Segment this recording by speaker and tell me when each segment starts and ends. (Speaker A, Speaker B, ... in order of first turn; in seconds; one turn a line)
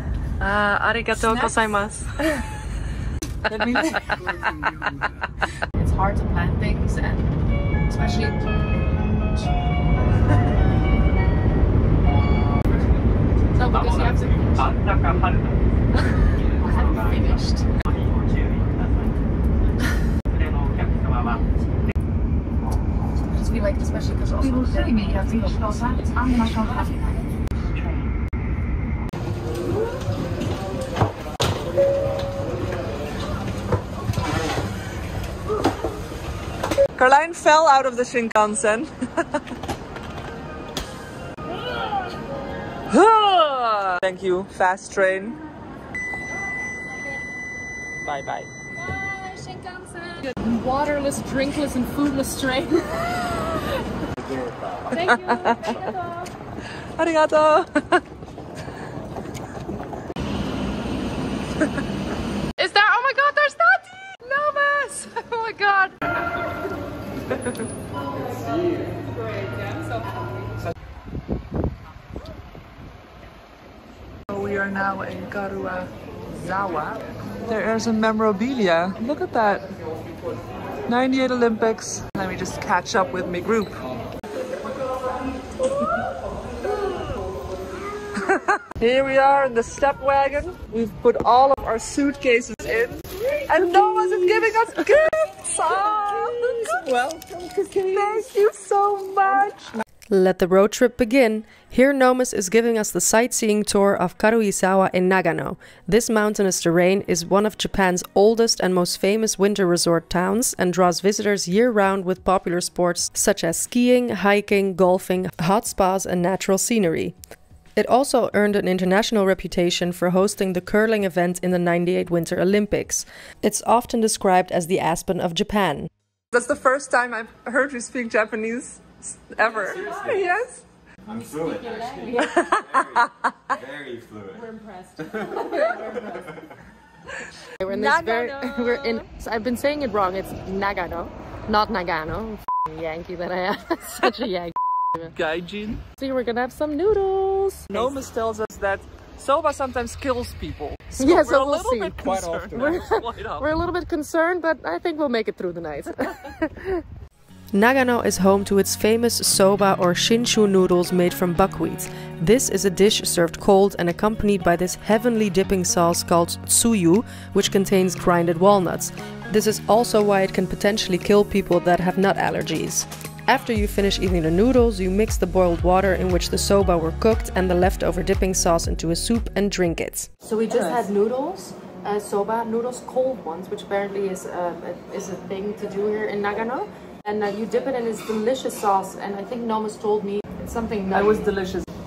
Speaker A: 0.4-2.3
Speaker B: 1.1-1.7
Speaker B: 3.5-4.4
Speaker A: 4.2-4.7
Speaker A: 5.8-7.3
Speaker A: 7.9-8.4
Speaker A: 13.6-15.1
Speaker A: 16.5-17.7
Speaker A: 23.3-27.1
Speaker B: 37.0-39.4
Speaker B: 42.9-45.4
Speaker B: 48.0-48.5
Speaker A: 48.8-53.6
Speaker C: 54.2-55.1
Speaker B: 55.0-56.0
Speaker A: 55.0-56.3
Speaker B: 57.0-58.0
Speaker A: 62.6-65.9
Speaker B: 64.4-65.0
Speaker B: 74.3-79.7
Speaker B: 80.9-83.8
Speaker B: 88.2-99.8
Speaker A: 93.7-94.3
Speaker A: 96.1-96.7
Speaker A: 100.1-117.1
Speaker A: 117.8-125.9
Speaker B: 126.3-130.6
Speaker C: 129.4-130.4
Speaker C: 131.1-136.4
Speaker A: 131.1-132.6
Speaker B: 132.2-133.1
Speaker A: 134.3-136.3
Speaker B: 135.4-135.9
Speaker B: 137.2-139.1
Speaker A: 137.6-145.1
Speaker B: 145.2-145.8
Speaker A: 146.0-148.0
Speaker B: 147.7-153.5
Speaker A: 150.9-156.8
Speaker C: 152.0-152.9
Speaker A: 157.5-191.3
Speaker B: 180.5-180.9
Speaker B: 190.9-191.7